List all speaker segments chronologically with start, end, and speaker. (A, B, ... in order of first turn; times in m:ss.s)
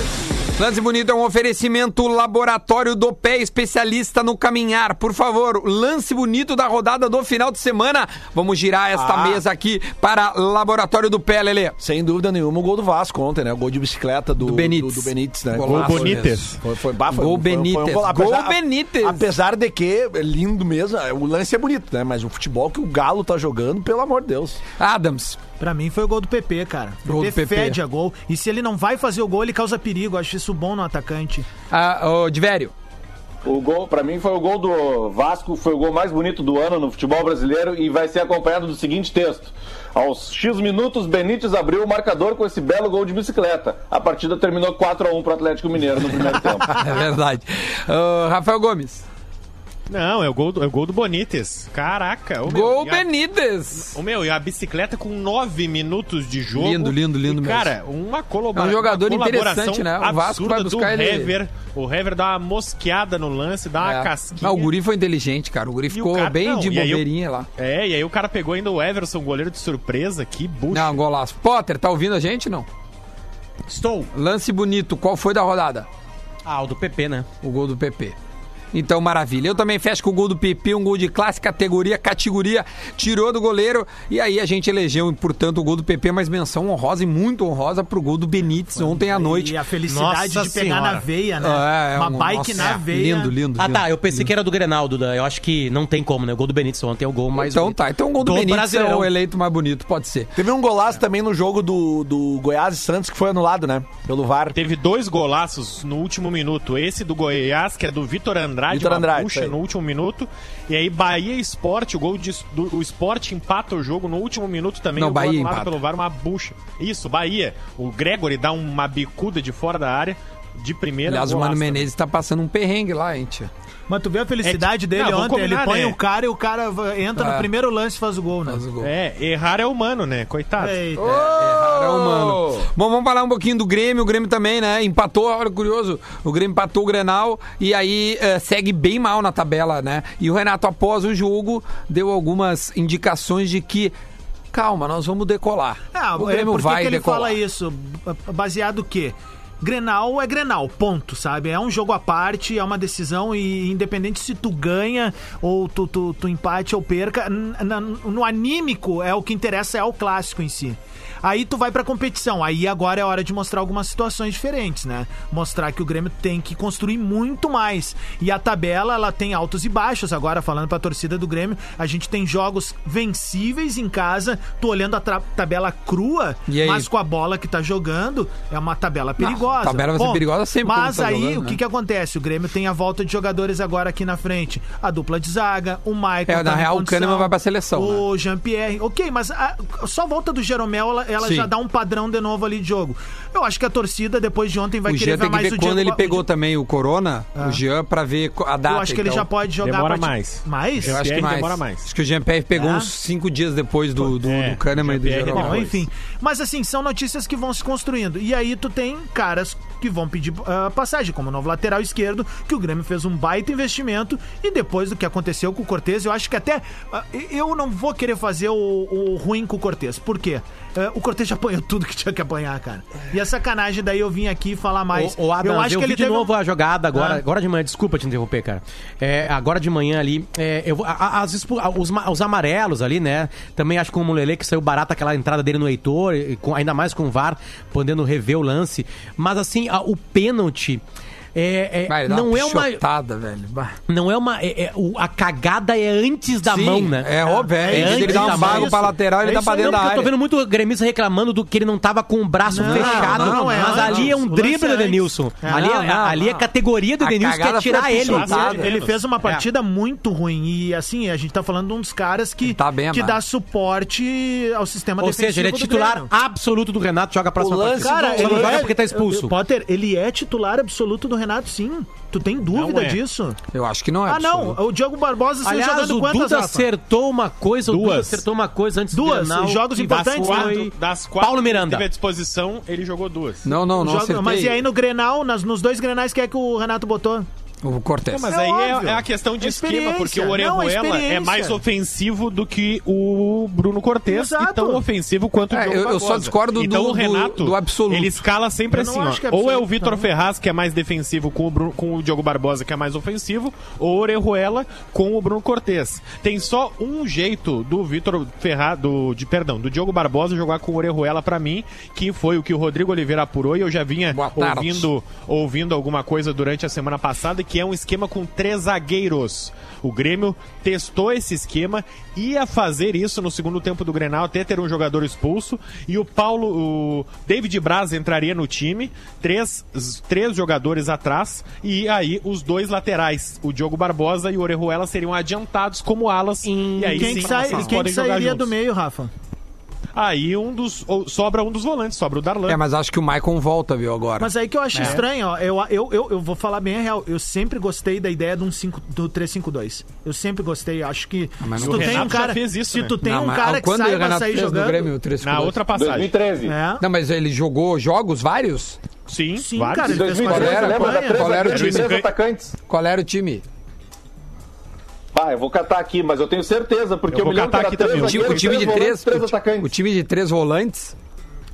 0:00.6-0:11.8 A
0:09.0-0:09.4 B
0:11.8-0:24.6 B
0:14.4-0:16.6 A
0:15.6-0:16.6 C
0:17.1-0:19.3 A
0:24.8-0:25.4 A
0:25.6-0:31.5 D
0:27.1-0:27.8 A
0:31.7-0:32.7 A
0:33.4-0:46.8 E
0:46.7-0:49.0 A
0:49.9-0:53.1 C
0:52.5-0:54.0 A
0:53.8-1:04.7 C
0:56.6-0:57.8 A
0:58.6-1:01.3 A
1:03.8-1:07.5 A
1:05.9-1:07.1 C
1:07.6-1:11.0 C
1:10.7-1:12.7 A
1:13.7-1:14.1 F
1:14.1-1:15.9 A
1:16.5-1:17.3 F
1:17.4-1:18.2 A
1:18.7-1:29.6 A
1:28.8-1:33.3 D
1:29.9-1:31.0 F
1:31.4-1:34.3 A
1:33.6-1:39.1 F
1:37.3-1:40.3 A
1:40.4-1:44.6 B
1:44.5-2:01.9 C
1:48.7-1:49.6 B
1:54.9-1:55.7 A
2:01.1-2:03.5 A
2:03.9-2:08.6 D
2:04.4-2:06.0 C
2:07.2-2:07.5 A
2:08.5-2:08.9 A
2:08.8-2:10.8 C
2:10.6-2:11.2 D
2:11.0-2:23.9 A
2:11.0-2:12.7 B
2:24.5-2:27.4 A
2:25.9-3:16.2 D
2:56.5-2:56.9 A
2:59.2-3:01.6 A
3:06.3-3:08.0 A
3:11.2-3:11.5 A
3:14.8-3:19.3 A
3:17.4-3:17.6 D
3:18.7-3:21.2 D
3:19.6-3:21.9 C
3:20.8-3:25.7 A
3:22.6-3:22.9 D
3:24.0-3:25.8 C
3:25.3-3:46.3 D
3:44.9-4:00.8 F
3:46.9-3:47.2 D
4:01.4-4:02.8 F
4:01.9-4:03.8 A
4:03.9-4:18.6 F
4:06.4-4:10.1 A
4:07.2-4:09.8 D
4:12.5-4:15.8 D
4:12.6-4:14.1 A
4:15.5-4:16.3 A
4:17.0-4:18.8 A
4:17.9-4:19.0 C
4:18.2-4:26.1 D
4:22.4-4:23.2 A
4:25.0-4:29.3 F
4:27.4-4:28.7 B
4:27.8-4:33.4 D
4:32.5-4:33.0 C
4:33.5-4:34.6 A
4:34.1-4:36.7 D
4:35.4-4:41.9 F
4:37.7-4:38.2 C
4:38.9-4:40.6 D
4:39.9-4:43.5 C
4:43.4-4:44.6 A
4:43.8-4:47.3 D
4:47.6-4:48.3 A
4:48.1-5:38.5 C
4:48.3-4:51.6 D
4:54.1-4:54.8 D
4:55.5-4:58.2 A
4:58.7-5:00.1 D
5:14.1-5:14.9 A
5:36.4-5:37.9 F
5:36.8-5:39.1 D
5:39.9-5:42.6 C
5:42.5-5:44.3 A
5:44.2-5:54.9 D
5:44.7-5:45.0 F
5:51.4-5:52.2 A
5:51.6-5:53.0 C
5:53.0-5:55.6 A
5:55.2-5:56.1 C
5:55.7-5:56.6 E
5:56.4-5:56.8 D
5:56.8-5:58.8 A
5:59.1-6:02.1 C
5:59.4-6:01.4 D
5:59.8-6:02.5 E
6:00.2-6:02.0 A
6:02.7-6:03.4 A
6:05.1-6:09.7 E
6:07.1-6:08.8 C
6:08.0-6:10.9 A